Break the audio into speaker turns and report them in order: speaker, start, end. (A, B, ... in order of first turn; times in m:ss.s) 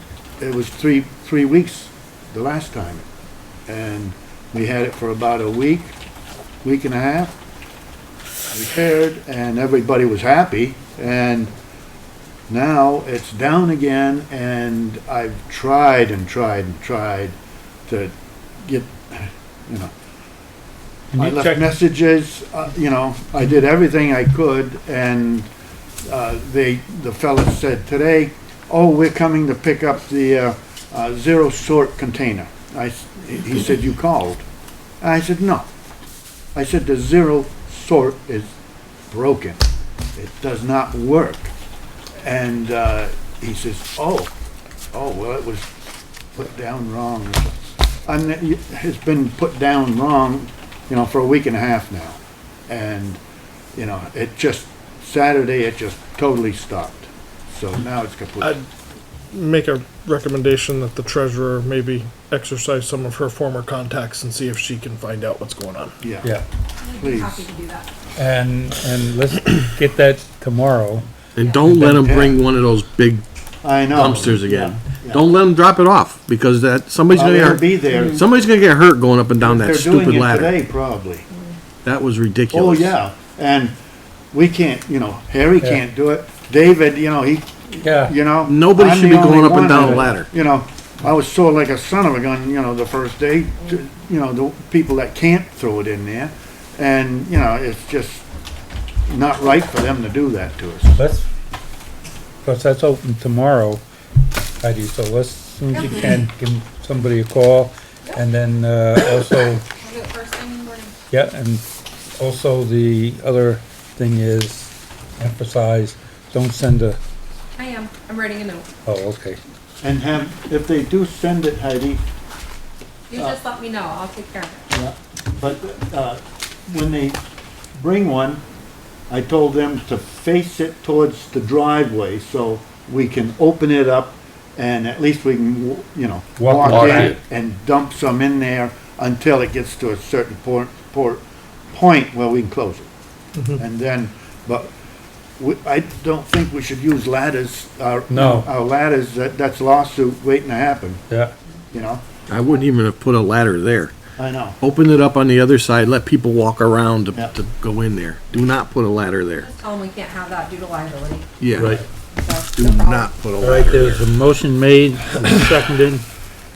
0:00.4-0:03.1 A
0:03.7-0:05.9 A
0:06.6-0:07.4 A
0:08.5-0:11.5 A
0:12.5-0:17.3 A
0:17.9-0:18.1 A
0:18.6-0:19.9 A
0:21.1-0:21.7 B
0:21.2-0:25.5 A
0:26.0-0:34.4 A
0:35.0-0:35.7 A
0:36.5-0:38.5 A
0:39.1-0:39.6 A
0:40.2-0:41.5 A
0:42.2-0:44.3 A
0:44.9-0:45.7 A
0:46.3-0:53.2 A
0:53.7-0:58.5 A
0:59.3-1:06.0 C
1:06.0-1:06.3 A
1:06.8-1:07.9 D
1:06.9-1:07.5 A
1:08.2-1:11.1 B
1:11.4-1:13.2 E
1:11.4-1:11.6 D
1:11.8-1:12.4 A
1:13.6-1:15.2 A
1:13.9-1:20.5 E
1:17.1-1:18.2 A
1:19.4-1:21.2 A
1:21.8-1:23.0 E
1:22.5-1:23.7 A
1:24.3-1:38.2 A
1:27.8-1:28.2 B
1:28.4-1:30.3 E
1:39.1-1:41.0 A
1:41.0-1:41.2 B
1:42.4-1:43.8 B
1:44.6-1:49.7 B
1:45.7-1:46.0 D
1:49.8-1:51.0 D
1:51.1-1:51.6 B
1:52.2-1:57.0 B
1:57.6-1:58.6 D
1:58.8-1:59.4 B
1:59.8-2:02.0 A
2:03.1-2:04.7 D
2:04.7-2:07.2 A
2:07.7-2:08.4 A
2:09.1-2:22.9 A
2:16.4-2:17.2 B
2:16.6-2:17.2 E
2:23.6-2:24.7 A
2:25.4-2:31.0 A
2:28.1-2:28.5 B
2:31.7-2:32.0 A
2:32.3-2:33.9 E
2:34.2-2:34.6 A
2:34.6-2:39.5 E
2:39.4-2:43.1 D
2:41.4-2:41.8 E
2:41.6-2:41.8 B
2:42.6-2:44.0 E
2:43.4-2:46.0 B